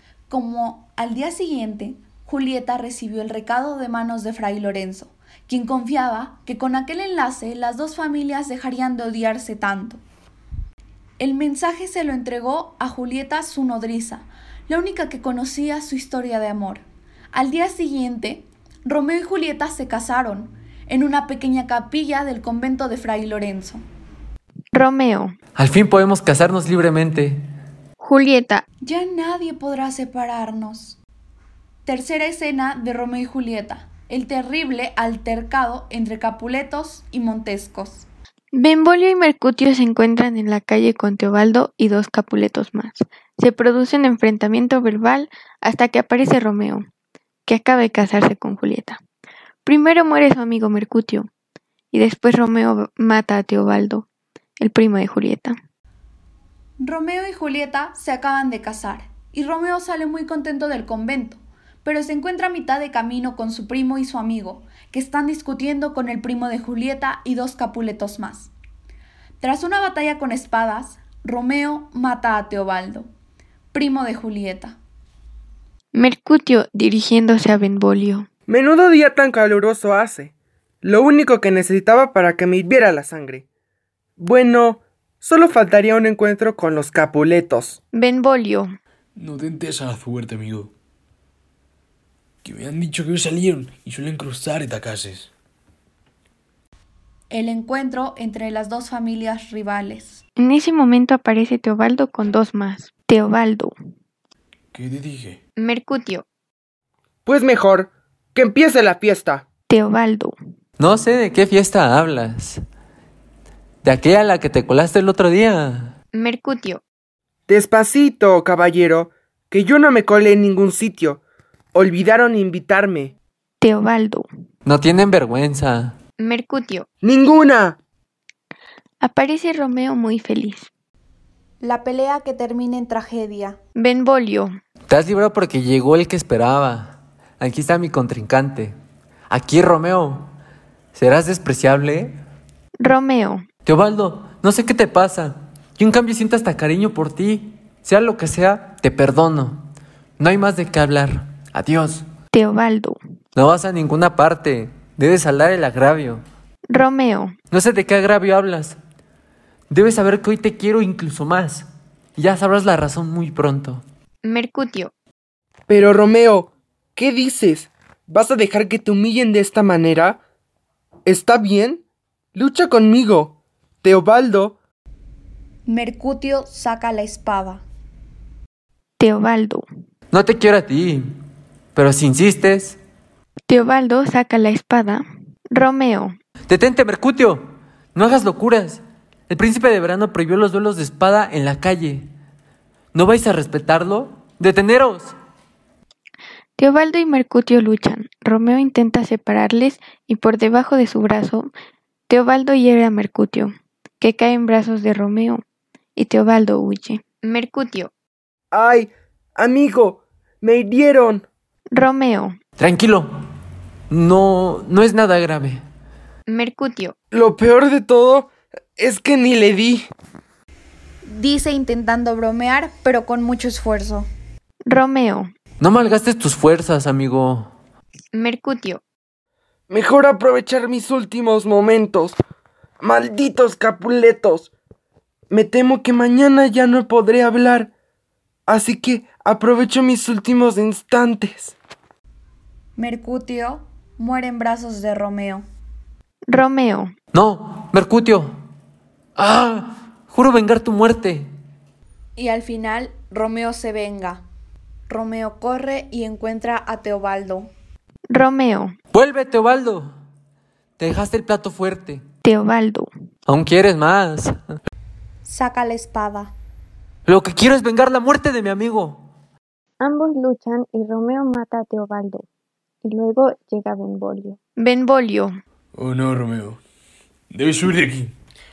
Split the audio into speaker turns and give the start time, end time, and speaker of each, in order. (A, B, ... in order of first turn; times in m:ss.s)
0:00.3-0:10.0 A
0:11.2-0:23.8 A
0:24.7-0:25.4 B
0:25.6-0:27.4 C
0:28.0-0:28.6 B
0:28.8-0:31.0 A
0:31.9-0:38.1 A
0:38.5-0:46.9 B
0:47.5-0:49.0 B
0:49.6-0:51.3 B
0:51.9-0:54.1 B
0:54.6-0:55.6 B
0:56.8-1:08.5 A
1:09.4-1:13.1 A
1:13.7-1:14.8 A
1:15.9-1:18.3 B
1:18.5-1:23.4 D
1:24.2-1:27.8 D
1:27.9-1:28.7 B
1:29.2-1:30.7 E
1:32.4-1:35.3 E
1:37.3-1:40.2 A
1:40.4-1:43.7 B
1:44.7-1:45.4 E
1:45.6-1:46.2 B
1:47.3-1:49.4 D
1:49.7-1:50.4 B
1:50.8-1:52.6 C
1:53.8-1:56.0 C
1:56.1-1:56.8 B
1:57.5-2:01.2 D
2:01.7-2:03.1 D
2:03.6-2:04.3 B
2:04.6-2:06.0 C
2:06.2-2:06.9 B
2:07.0-2:07.8 D
2:09.0-2:10.7 B
2:11.6-2:13.6 A
2:13.8-2:14.5 B
2:14.9-2:18.8 C
2:19.3-2:20.3 C
2:20.9-2:22.2 C
2:22.8-2:23.5 B
2:23.6-2:29.7 C
2:30.2-2:32.1 C
2:32.3-2:33.0 B
2:33.4-2:36.2 C
2:36.7-2:37.4 B
2:37.5-2:38.8 C
2:39.7-2:43.8 C
2:44.2-2:44.9 B
2:45.7-2:50.2 D
2:51.1-2:51.8 D
2:52.4-2:54.6 D
2:55.7-2:57.6 A
2:59.0-2:59.6 B
3:00.1-3:01.1 C
3:01.8-3:02.8 C
3:03.5-3:06.2 B
3:06.5-3:07.4 C
3:07.9-3:12.1 C
3:12.9-3:15.2 C
3:16.6-3:21.5 B
3:22.1-3:25.4 B
3:26.0-3:27.9 B
3:28.5-3:31.3 D
3:31.7-3:32.4 B
3:32.6-3:33.1 C
3:33.9-3:35.6 C
3:36.3-3:37.0 B
3:37.1-3:39.9 D
3:41.0-3:44.1 A
3:44.7-3:45.3 B
3:45.6-3:47.5 C
3:48.1-3:48.8 B
3:49.7-3:52.2 D
3:52.8-3:54.5 D
3:55.3-3:57.7 D
3:58.5-4:01.6 D
4:02.8-4:05.4 A
4:06.3-4:06.9 B
4:07.1-4:08.4 C
4:09.2-4:11.3 C
4:12.2-4:14.2 A
4:14.9-4:17.5 A
4:18.1-4:18.8 B
4:18.9-4:19.9 C
4:20.8-4:22.0 C
4:22.2-4:22.9 B
4:23.3-4:24.4 C
4:25.2-4:26.3 A
4:27.1-4:29.1 C
4:29.8-4:32.3 B
4:32.8-4:35.4 B
4:35.8-4:36.6 E
4:37.3-4:38.1 E